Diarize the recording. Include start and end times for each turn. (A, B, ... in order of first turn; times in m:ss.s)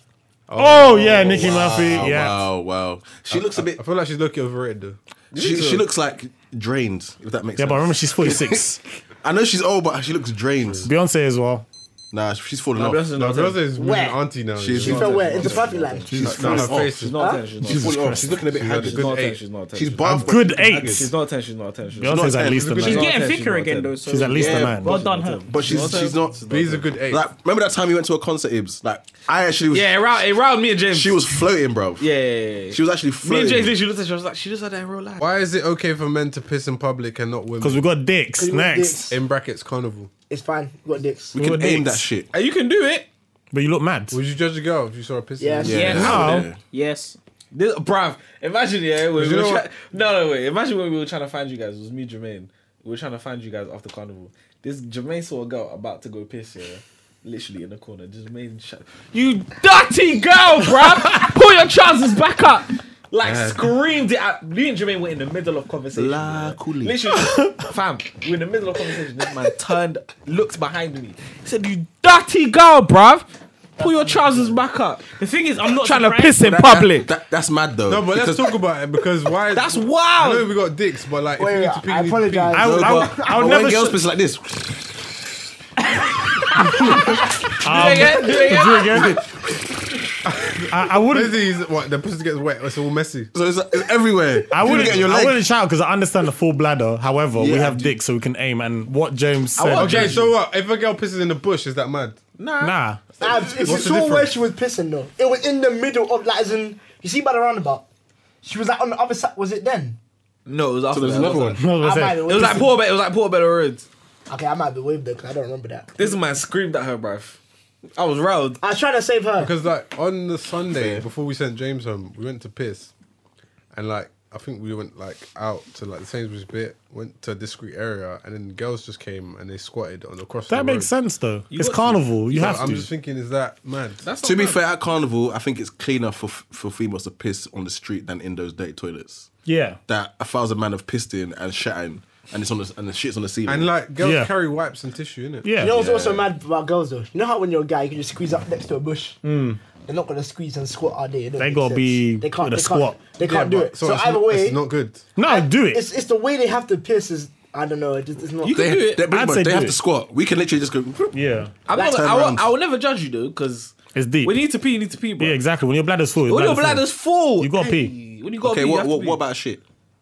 0:00.5-0:02.2 A
0:00.6-0:02.5 B
0:01.0-0:03.8 C
0:03.3-0:05.0 A
0:05.3-0:05.9 D
0:05.3-0:10.9 C
0:07.6-0:08.8 B
0:10.8-0:11.7 B
0:12.1-0:13.1 C
0:12.8-0:13.6 D
0:13.1-0:15.6 A
0:13.8-0:14.2 E
0:14.6-0:17.0 C
0:14.8-0:16.3 E
0:14.8-0:24.0 D
0:16.1-0:17.0 B
0:16.2-0:17.2 A
0:17.1-0:17.5 E
0:17.6-0:21.1 C
0:17.6-0:18.4 B
0:18.3-0:19.4 A
0:20.0-0:21.1 B
0:22.0-0:23.1 B
0:22.0-0:22.9 C
0:22.5-0:23.1 A
0:22.9-0:25.5 F
0:24.0-0:25.0 B
0:24.3-0:30.1 C
0:24.5-0:26.9 D
0:26.5-0:27.2 A
0:29.7-0:31.4 D
0:30.9-0:32.1 C
0:32.0-0:35.3 D
0:32.7-0:33.8 C
0:35.2-0:37.8 A
0:37.6-0:39.1 B
0:38.3-0:39.2 E
0:39.1-0:40.1 A
0:40.3-0:41.4 E
0:41.3-0:42.3 C
0:41.4-0:42.1 B
0:42.3-0:43.1 D
0:43.5-0:44.2 B
0:44.1-0:46.3 A
0:45.4-0:45.9 E
0:45.6-0:46.6 C
0:45.7-0:47.2 F
0:45.9-0:46.5 B
0:47.5-1:13.3 D
0:49.1-0:49.7 A
1:03.2-1:03.7 C
1:06.0-1:07.0 C
1:07.2-1:07.6 B
1:13.8-1:15.1 D
1:15.2-1:16.5 F
1:15.6-1:17.1 D
1:16.4-1:18.6 C
1:17.9-1:22.8 A
1:19.5-1:20.5 D
1:21.4-1:23.6 E
1:22.5-1:24.0 B
1:22.6-1:25.2 C
1:25.9-1:26.8 F
1:27.6-1:29.2 B
1:27.6-1:29.2 D
1:28.9-1:29.4 C
1:30.3-1:33.3 A
1:30.7-1:31.4 B
1:33.3-1:35.4 C
1:34.5-1:40.2 B
1:37.4-1:38.0 C
1:39.6-1:40.3 D
1:39.7-1:42.2 A
1:42.4-1:42.8 D
1:42.6-1:43.0 B
1:43.2-1:47.8 E
1:43.6-1:44.4 A
1:48.4-1:50.0 E
1:50.5-1:51.6 D
1:50.9-1:51.7 C
1:51.6-1:52.5 B
1:51.7-1:52.8 E
1:52.3-1:53.9 D
1:54.3-1:55.9 E
1:56.0-1:57.4 D
1:58.0-1:58.6 D
1:58.6-1:59.5 E
1:59.4-2:02.9 A
2:00.7-2:01.0 C
2:03.7-2:10.9 A
2:10.5-2:12.9 B
2:11.5-2:12.8 D
2:12.3-2:14.0 A
2:14.0-2:14.6 D
2:14.2-2:19.3 C
2:19.5-2:19.8 B
2:19.9-2:23.7 C
2:23.5-2:25.5 A
2:24.0-2:24.3 B
2:25.4-2:25.8 B
2:25.6-2:29.2 E
2:25.7-2:26.3 C
2:29.2-2:29.6 B
2:29.9-2:34.6 E
2:31.4-2:33.0 B
2:33.2-2:35.0 A
2:35.2-2:35.9 B
2:35.2-2:38.7 E
2:38.4-2:39.1 D
2:38.5-2:41.2 C
2:39.1-2:39.8 B
2:41.1-2:41.5 B
2:41.7-2:45.4 D
2:41.7-2:42.5 C
2:44.0-2:44.4 B
2:45.2-2:46.9 B
2:46.3-2:49.2 D
2:47.4-2:47.9 B
2:48.4-2:49.6 C